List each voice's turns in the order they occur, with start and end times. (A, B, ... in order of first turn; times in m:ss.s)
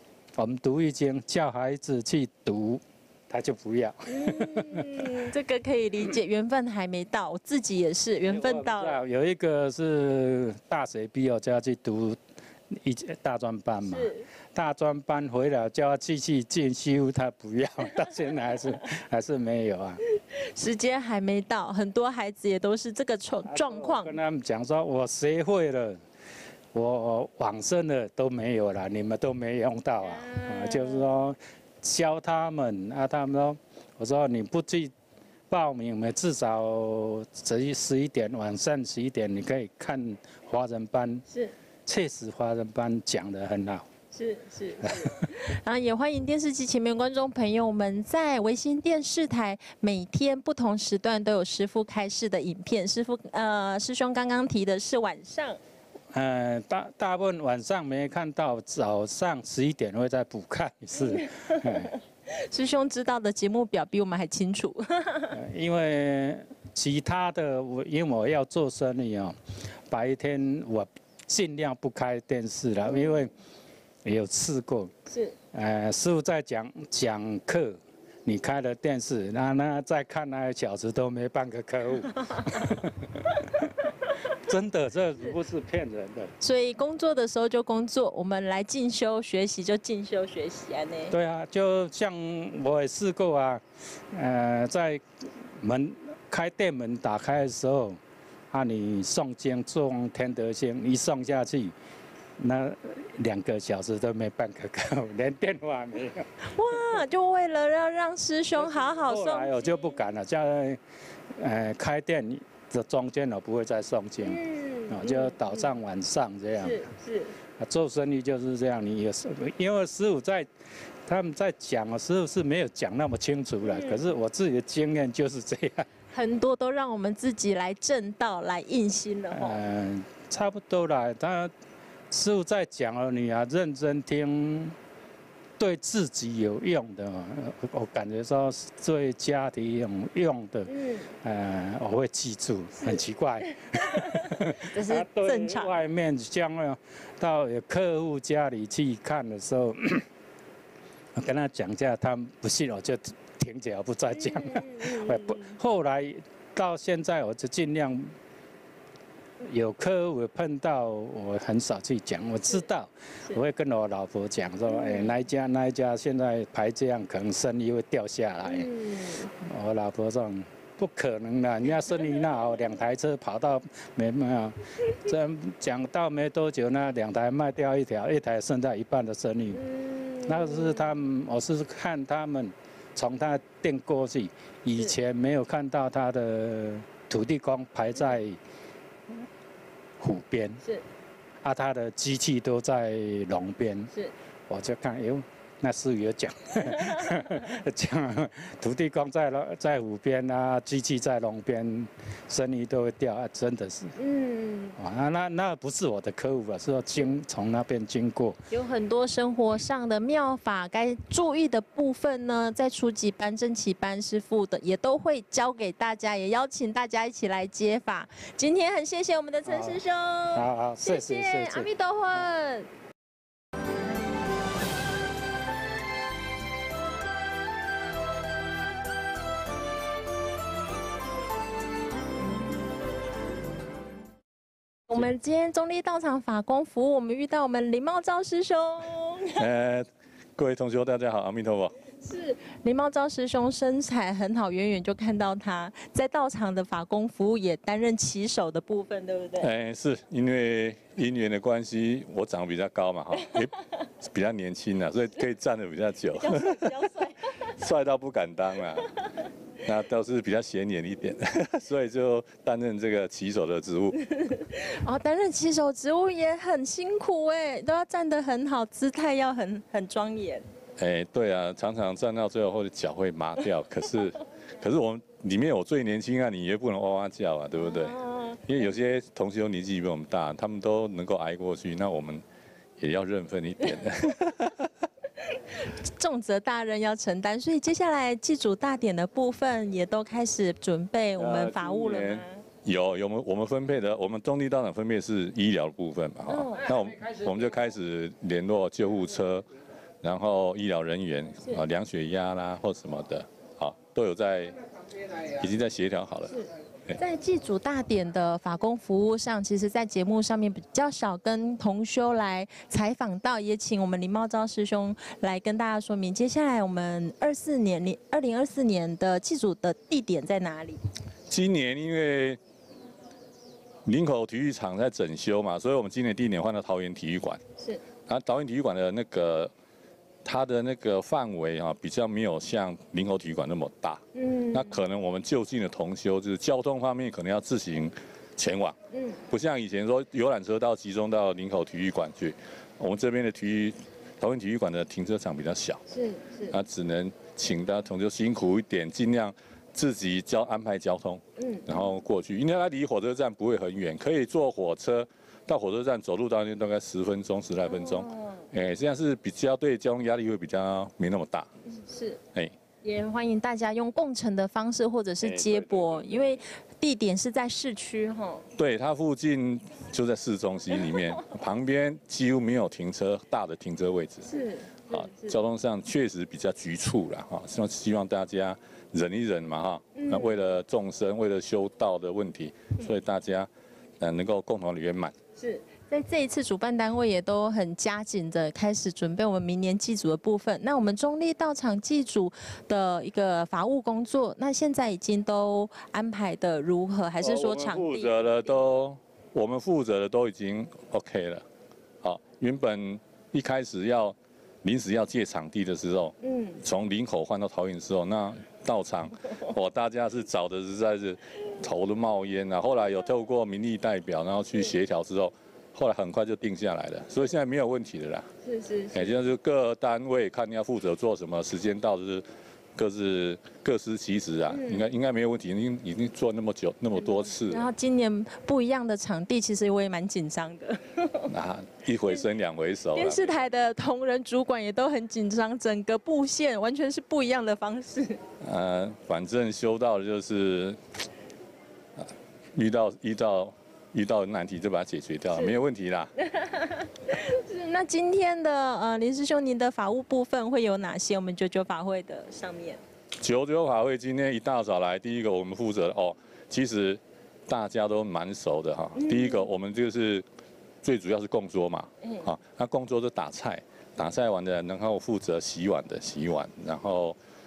0:00.4-0:05.1 A
0:04.1-0:09.0 B
0:08.3-0:20.0 A
0:13.8-0:14.3 B
0:20.4-0:24.2 B
0:23.5-0:26.0 A
0:26.7-0:34.9 A
0:30.0-0:31.0 B
0:35.5-0:41.2 A
0:41.3-0:41.5 B
0:41.9-0:43.9 A
0:44.1-0:55.6 B
0:56.1-1:01.9 A
1:01.1-1:05.4 B
1:05.3-1:09.4 A
1:09.9-1:13.3 A
1:12.9-1:13.2 B
1:14.0-1:14.9 A
1:15.1-1:15.4 B
1:15.5-1:23.7 A
1:22.2-1:22.7 B
1:24.3-1:26.3 A
1:26.4-1:31.1 B
1:31.1-1:35.0 A
1:35.6-1:38.0 A
1:38.5-1:41.8 A
1:42.4-1:47.0 A
1:46.4-1:50.0 B
1:48.6-1:50.8 A
1:51.3-1:56.8 A
1:54.2-1:55.8 B
1:56.6-1:57.4 B
1:57.6-2:00.5 A
2:01.1-2:05.9 A
2:03.6-2:04.0 B
2:06.1-2:09.6 B
2:09.3-2:11.5 A
2:12.1-2:14.8 A
2:15.6-2:30.0 A
2:20.7-2:21.1 B
2:23.6-2:25.8 B
2:31.1-2:38.1 A
2:34.2-2:35.6 B
2:39.4-2:48.7 A
2:44.7-2:45.2 B
2:48.5-2:49.3 B
2:49.3-2:59.6 A
2:59.5-3:00.9 B
3:00.2-3:08.4 A
3:10.0-3:10.6 A
3:11.4-3:13.9 A
3:14.5-3:24.0 A
3:16.7-3:17.4 B
3:24.0-3:24.8 B
3:24.8-3:28.4 A
3:28.5-3:42.7 B
3:39.5-3:39.8 A
3:40.3-3:41.7 A
3:54.9-3:59.4 B
3:59.4-4:01.7 C
4:02.0-4:09.5 B
4:09.4-4:16.8 C
4:13.2-4:13.5 B
4:16.2-4:17.5 B
4:17.4-4:18.9 C
4:19.6-4:24.0 C
4:24.0-4:30.4 B
4:30.8-4:42.2 C
4:37.6-4:38.4 B
4:42.8-4:44.7 C
4:45.6-4:52.4 B
4:51.2-4:59.5 C
4:56.3-4:56.9 B
5:00.0-5:04.6 C
5:05.2-5:06.4 C
5:06.3-5:20.8 B
5:21.3-5:22.4 C
5:23.8-5:27.4 C
5:28.1-5:29.5 C
5:30.2-5:38.8 C
5:34.2-5:34.8 B
5:38.9-5:39.2 B
5:39.3-5:45.8 C
5:45.9-5:46.6 B
5:46.5-6:01.5 C
5:51.4-5:51.9 B
5:57.7-5:58.4 B
6:01.7-6:02.2 B
6:02.8-6:08.4 B
6:05.2-6:06.3 C
6:08.6-6:14.3 C
6:10.9-6:11.3 B
6:14.3-6:15.4 B
6:14.9-6:23.5 C
6:20.0-6:20.4 B
6:24.0-6:25.1 C
6:25.4-6:38.1 B
6:37.2-6:41.4 C
6:42.0-6:58.3 C
6:46.2-6:46.6 B
6:58.4-6:59.2 B
6:58.9-7:02.2 C
7:02.8-7:07.7 C
7:04.5-7:04.8 B
7:07.0-7:11.3 B
7:11.3-7:13.4 C
7:13.0-7:18.2 B
7:18.4-7:20.8 C
7:22.0-7:26.1 C
7:25.3-7:25.6 B
7:26.2-7:32.8 B
7:33.2-7:40.2 C
7:39.0-7:39.5 B
7:40.8-7:47.2 C
7:42.0-7:42.3 B